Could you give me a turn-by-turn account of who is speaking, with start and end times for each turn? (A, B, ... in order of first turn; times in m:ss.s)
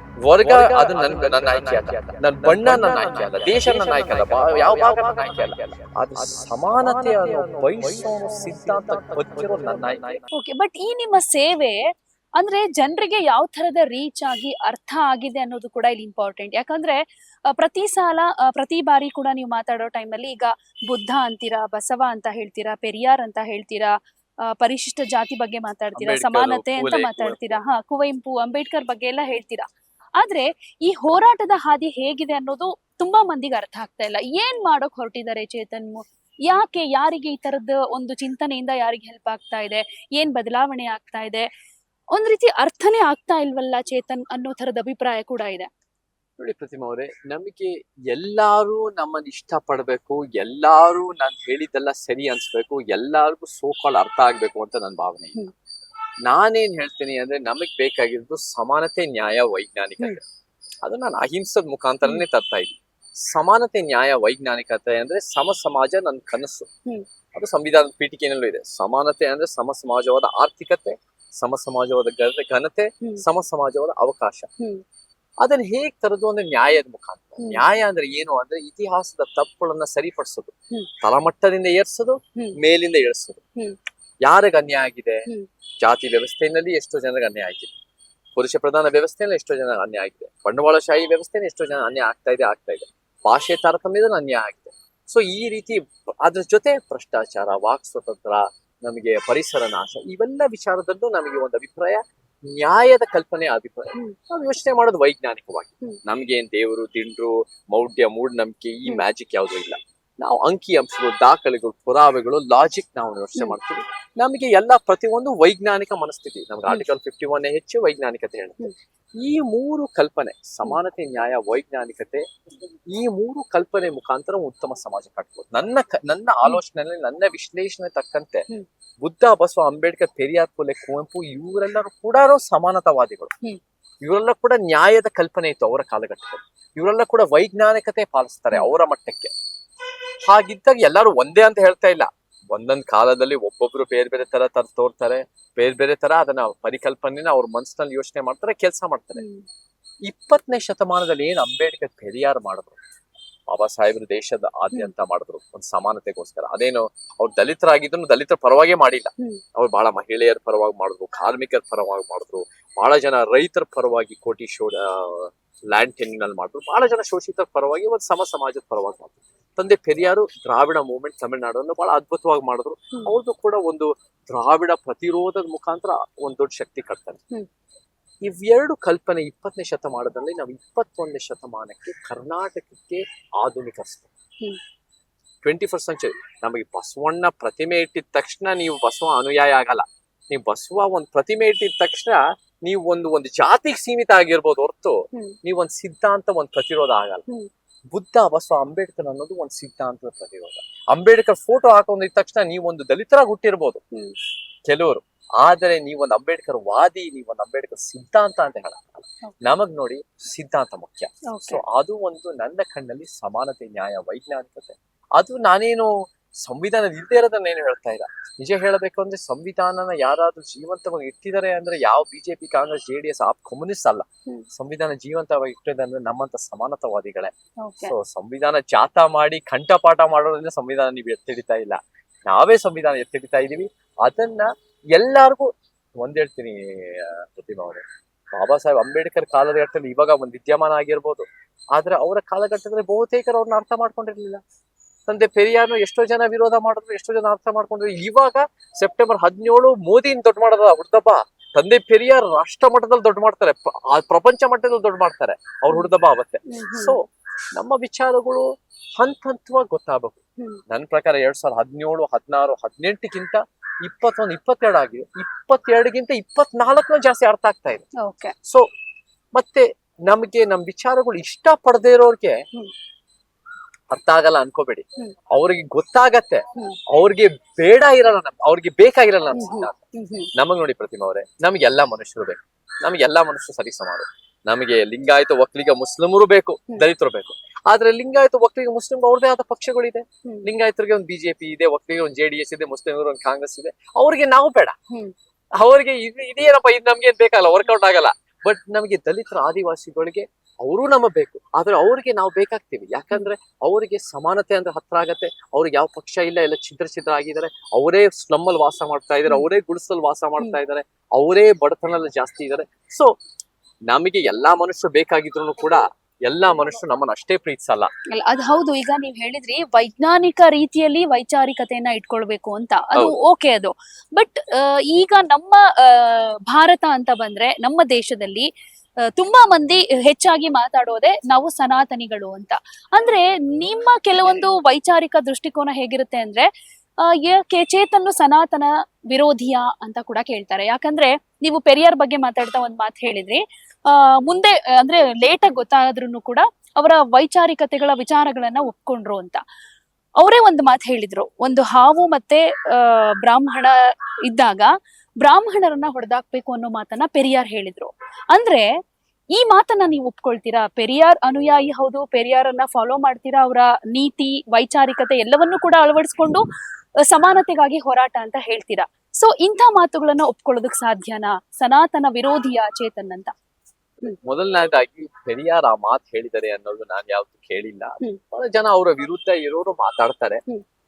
0:00.2-0:10.2 A
0:10.3-0:11.8 B
0:12.4-0:41.5 B
0:26.0-0:27.4 A
0:42.1-0:45.7 B
0:46.4-0:55.4 A
0:56.2-1:00.2 A
1:00.8-1:06.7 A
1:07.3-1:14.5 A
1:14.6-1:14.8 B
1:15.4-1:23.4 A
1:17.4-1:17.7 B
1:24.2-1:25.3 A
1:25.8-1:27.7 A
1:28.4-2:02.3 A
2:02.9-2:08.5 A
2:09.0-2:13.3 A
2:14.0-2:19.3 A
2:20.2-2:29.2 A
2:29.1-2:29.5 B
2:30.0-2:32.8 A
2:33.5-2:57.2 A
2:58.2-3:04.1 A
3:05.4-3:17.2 A
3:17.9-3:23.8 A
3:24.7-4:04.4 A
3:31.3-3:31.6 B
3:47.6-3:47.9 B
4:05.1-4:27.8 A
4:16.5-4:17.0 B
4:28.0-4:28.4 B
4:29.3-4:32.4 A
4:33.9-4:39.8 A
4:39.3-4:40.3 B
4:40.3-4:54.8 A
4:55.6-5:13.1 A
5:13.9-5:17.9 A
5:18.1-5:28.5 B
5:29.0-5:49.4 B
5:50.2-5:53.7 B
5:54.3-5:58.7 B
5:59.3-6:06.5 B
6:07.0-6:13.3 B
6:14.2-6:20.4 A